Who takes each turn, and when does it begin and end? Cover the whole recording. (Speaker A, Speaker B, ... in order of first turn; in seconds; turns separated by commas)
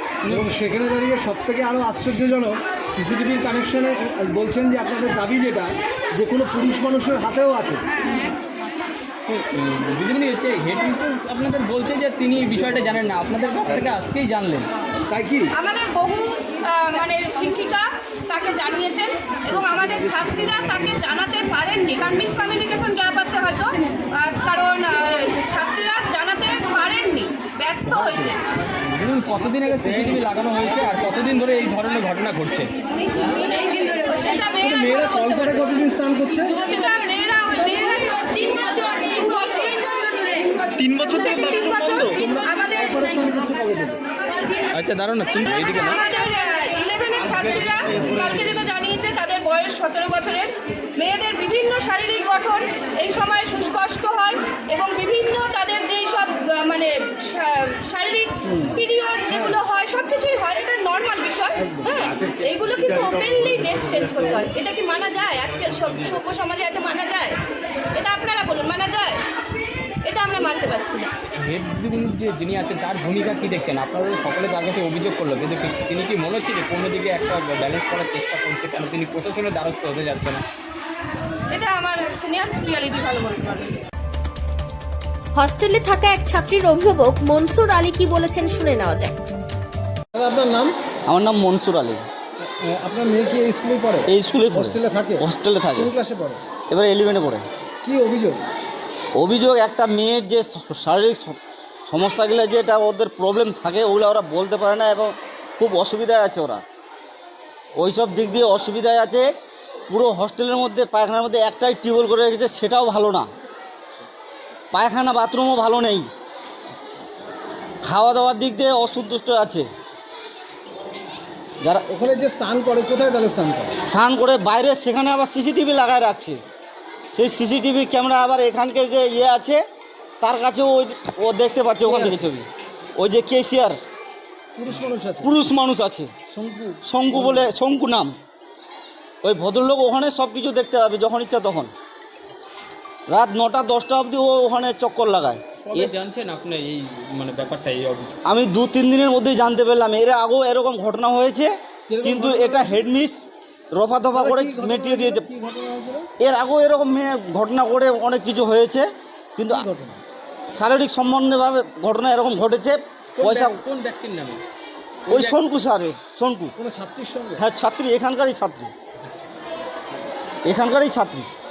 Speaker A: 0.3-7.8, Speaker B: 9.2-14.7, Speaker A: 15.1-15.5, Speaker C: 15.5-28.4, Speaker B: 27.9-28.3, Speaker B: 28.9-32.7, Speaker C: 33.1-35.8, Speaker A: 34.6-36.5, Speaker C: 36.4-42.9, Speaker A: 40.8-44.0, Speaker B: 44.7-46.0, Speaker C: 45.4-50.4, Speaker C: 51.0-67.4, Speaker A: 58.5-58.7, Speaker C: 67.9-69.2, Speaker C: 70.0-71.1, Speaker B: 71.3-80.4, Speaker C: 81.5-83.8, Speaker D: 85.4-89.1, Speaker A: 90.1-90.7, Speaker E: 91.1-92.0, Speaker A: 92.4-95.2, Speaker E: 94.1-95.9, Speaker A: 95.8-96.4, Speaker E: 96.7-97.4, Speaker A: 97.8-98.4, Speaker E: 99.2-106.6, Speaker E: 107.8-109.3, Speaker E: 109.9-113.3, Speaker E: 114.7-116.1, Speaker E: 117.8-119.7, Speaker A: 121.9-123.7, Speaker E: 123.8-126.4, Speaker E: 127.1-129.6, Speaker E: 130.2-132.5, Speaker A: 131.8-132.2, Speaker E: 133.0-133.8, Speaker A: 134.6-135.3, Speaker E: 135.2-136.1, Speaker A: 136.3-137.5, Speaker E: 136.8-138.1, Speaker E: 139.2-141.7, Speaker E: 143.1-145.9, Speaker B: 145.6-148.2, Speaker E: 148.2-155.2, Speaker A: 151.9-152.8, Speaker A: 154.1-156.1, Speaker E: 156.2-159.7, Speaker A: 159.5-160.0, Speaker E: 160.5-163.5, Speaker B: 163.2-164.4, Speaker B: 165.1-165.3, Speaker E: 165.1-166.5, Speaker A: 166.6-167.4, Speaker E: 167.4-168.7, Speaker E: 170.5-171.3